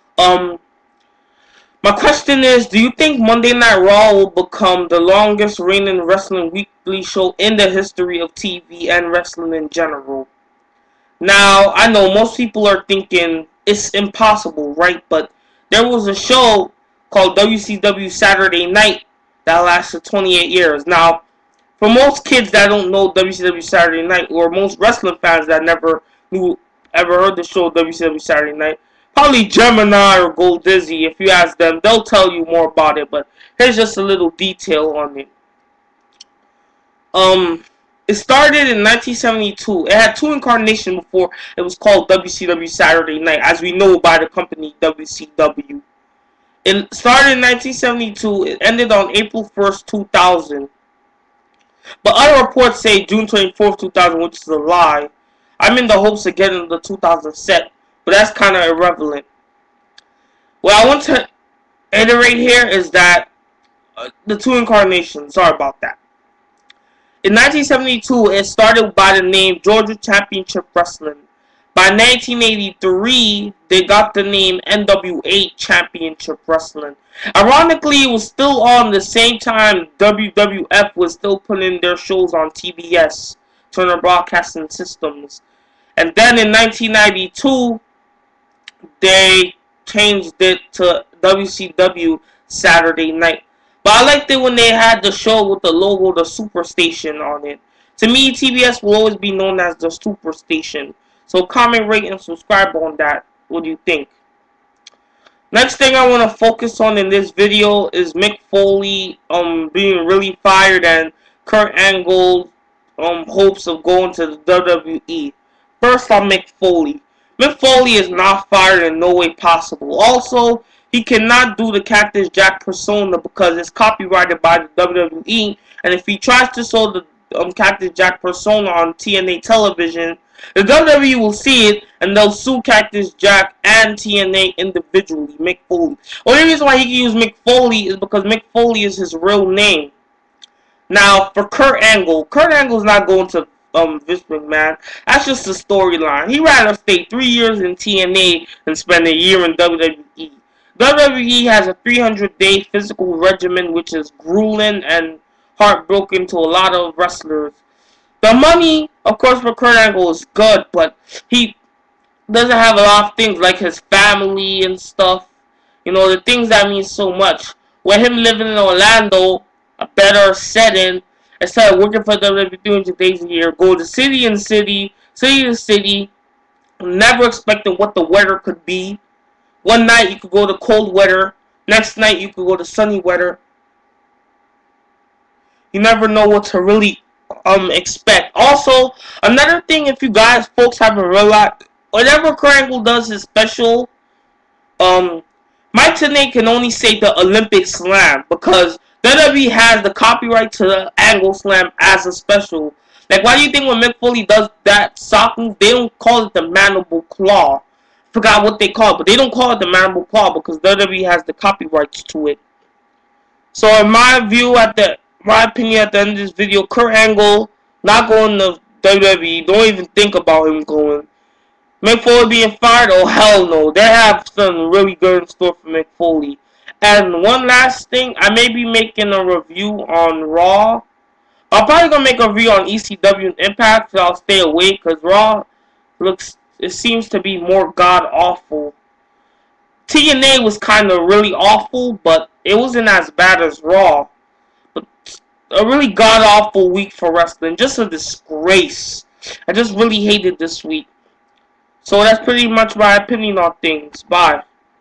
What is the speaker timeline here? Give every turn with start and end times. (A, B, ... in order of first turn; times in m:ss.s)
0:00.2-0:00.6 A
0:01.8-0:10.3 A
0:11.2-0:21.2 A
0:21.8-0:35.3 A
0:37.1-0:45.8 A
0:46.6-0:50.7 A
0:52.0-0:59.2 A
1:00.6-1:01.3 A
1:01.9-1:03.3 A
1:04.0-1:06.0 A
1:07.2-1:11.2 A
1:11.7-1:25.4 A
1:26.0-1:27.8 A
1:29.0-1:44.1 A
1:45.5-2:19.9 A
2:20.9-2:37.6 A
2:38.2-2:41.6 A
2:42.3-2:45.3 A
2:45.8-2:56.1 A
2:56.8-2:59.0 A
2:59.6-3:03.4 A
3:05.7-3:13.9 A
3:14.8-3:32.4 A
3:33.5-3:41.1 A
3:41.8-3:50.8 A
3:51.5-3:55.5 A
3:56.0-3:58.7 A
3:59.9-4:04.1 A
4:04.7-4:10.9 A
4:11.8-4:14.4 A